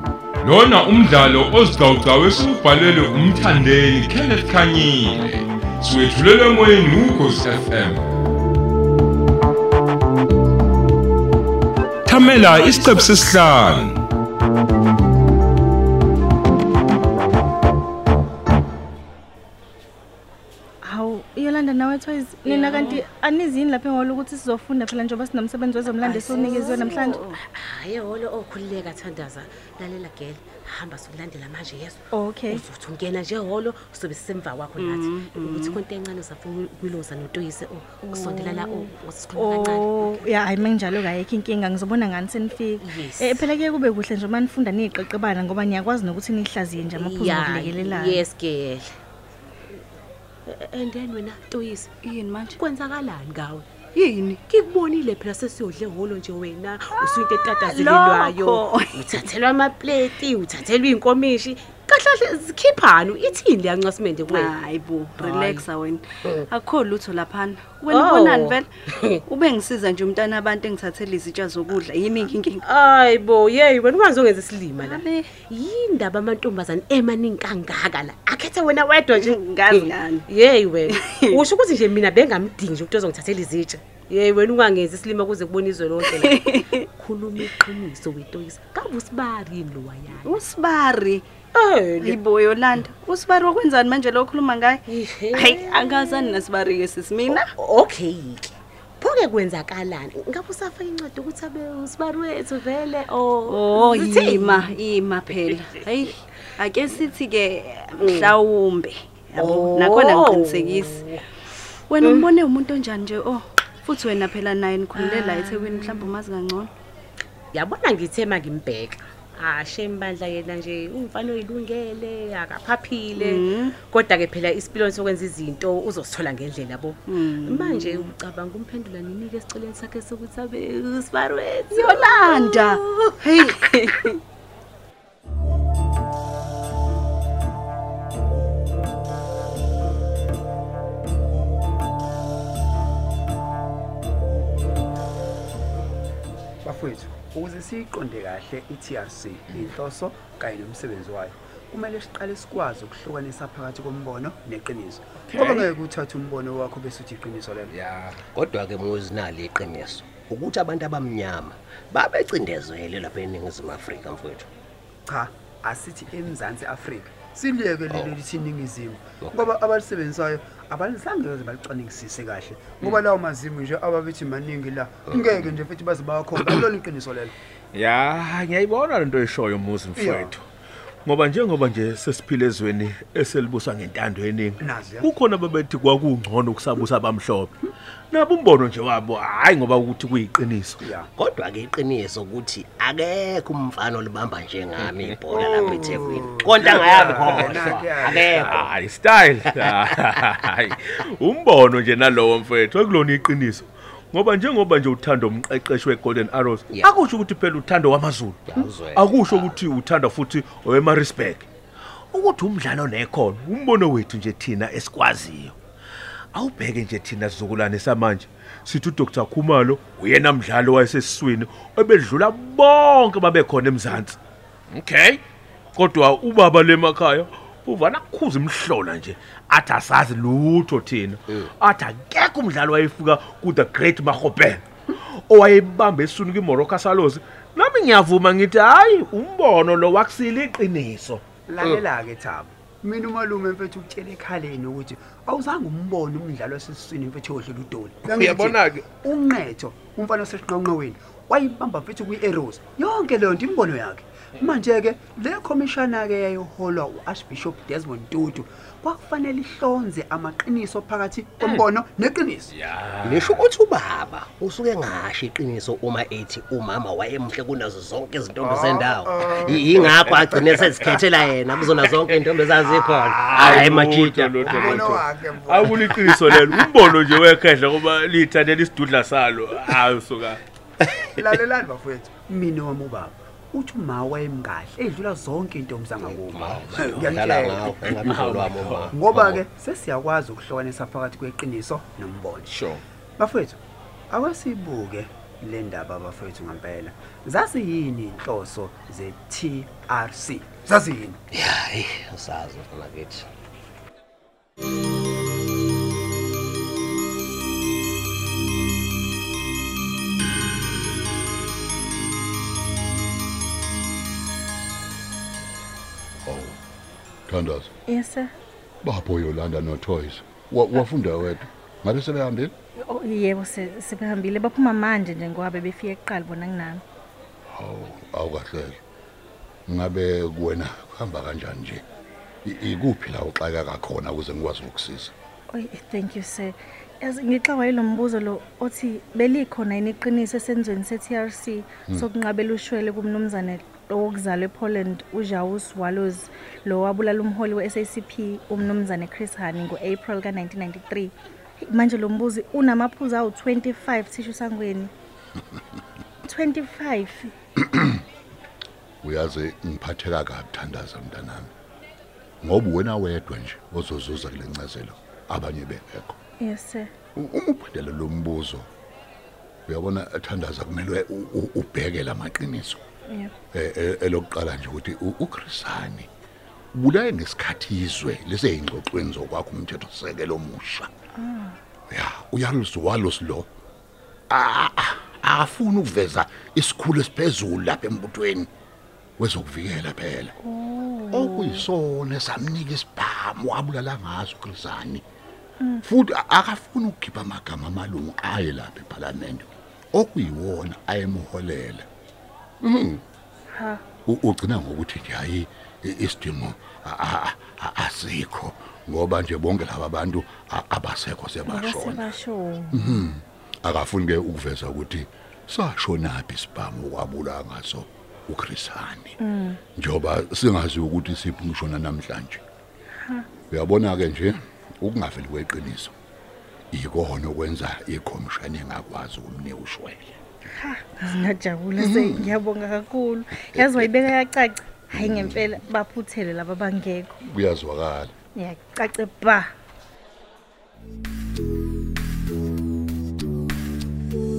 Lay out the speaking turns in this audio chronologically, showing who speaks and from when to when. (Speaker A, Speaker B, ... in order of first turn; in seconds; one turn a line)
Speaker A: 0.4-8.1
Speaker A: 12.1-14.0
Speaker B: 20.8-27.2
Speaker C: 22.4-23.0
Speaker D: 22.7-23.0
Speaker D: 26.0-27.4
Speaker C: 26.3-40.3
Speaker B: 32.1-32.6
Speaker D: 34.8-35.8
Speaker B: 38.0-48.2
Speaker C: 42.8-43.5
Speaker C: 47.0-48.9
Speaker C: 50.5-51.9
Speaker D: 52.0-52.6
Speaker C: 52.6-53.6
Speaker D: 53.9-54.4
Speaker C: 54.5-64.5
Speaker D: 57.0-59.3
Speaker D: 64.3-68.7
Speaker C: 65.2-65.7
Speaker C: 67.9-69.0
Speaker D: 69.2-72.6
Speaker C: 72.6-90.4
Speaker D: 74.8-75.3
Speaker D: 79.1-80.2
Speaker D: 80.9-81.4
Speaker D: 86.1-86.9
Speaker D: 90.2-91.2
Speaker C: 91.5-92.2
Speaker D: 92.0-94.8
Speaker C: 94.9-96.5
Speaker D: 95.3-97.5
Speaker C: 97.3-105.8
Speaker D: 103.5-111.0
Speaker C: 108.0-108.4
Speaker C: 109.4-111.2
Speaker D: 111.9-116.7
Speaker C: 112.0-112.3
Speaker C: 114.9-116.1
Speaker C: 117.5-133.8
Speaker D: 123.2-123.7
Speaker D: 127.1-128.1
Speaker D: 131.7-134.2
Speaker E: 146.6-157.7
Speaker F: 155.2-155.7
Speaker F: 157.7-158.2
Speaker G: 158.2-164.5
Speaker E: 165.1-177.3
Speaker G: 167.9-168.2
Speaker F: 177.7-180.4
Speaker E: 179.9-180.3
Speaker F: 181.0-190.8
Speaker E: 184.6-185.1
Speaker E: 190.8-191.1
Speaker G: 191.2-198.7
Speaker F: 194.8-195.8
Speaker E: 195.3-198.7
Speaker F: 196.6-211.5
Speaker G: 199.5-199.8
Speaker G: 208.4-209.5
Speaker F: 212.1-215.6
Speaker F: 216.3-224.2
Speaker F: 224.7-225.2
Speaker F: 225.8-234.6
Speaker F: 235.3-241.2
Speaker E: 241.5-262.5
Speaker F: 248.0-248.9
Speaker F: 261.4-261.6
Speaker F: 262.5-263.5
Speaker G: 263.0-274.8
Speaker E: 268.4-270.9
Speaker F: 269.6-270.9
Speaker F: 271.8-280.4
Speaker E: 274.4-276.3
Speaker G: 276.3-276.7
Speaker E: 281.0-292.6
Speaker G: 286.0-289.4
Speaker F: 287.6-288.9
Speaker F: 292.4-292.8
Speaker E: 293.2-301.2
Speaker G: 301.3-303.2
Speaker H: 316.2-316.6
Speaker H: 317.3-317.7
Speaker B: 317.9-318.3
Speaker H: 318.8-322.5
Speaker B: 322.8-326.8
Speaker H: 327.5-328.8
Speaker H: 329.7-331.8
Speaker H: 332.4-335.1
Speaker B: 335.5-354.9
Speaker B: 356.2-357.3
Speaker H: 359.0-361.5
Speaker H: 362.4-366.1
Speaker B: 366.4-366.9
Speaker H: 367.1-368.7
Speaker H: 369.7-372.8
Speaker H: 373.5-376.1
Speaker H: 376.7-380.9
Speaker B: 381.1-381.6
Speaker H: 381.9-383.5
Speaker H: 384.3-388.5
Speaker H: 389.2-390.3
Speaker B: 390.4-391.6
Speaker H: 391.1-395.0
Speaker H: 395.8-401.9
Speaker H: 402.6-403.0
Speaker B: 403.5-403.8
Speaker H: 404.1-412.1
Speaker B: 411.4-413.0
Speaker H: 412.7-419.2
Speaker B: 419.2-419.6
Speaker H: 419.8-422.4
Speaker H: 423.5-425.9
Speaker H: 426.7-430.2
Speaker B: 430.5-437.2
Speaker H: 431.8-432.3
Speaker H: 433.5-433.9
Speaker H: 434.9-435.5
Speaker H: 437.2-438.1
Speaker B: 438.3-439.5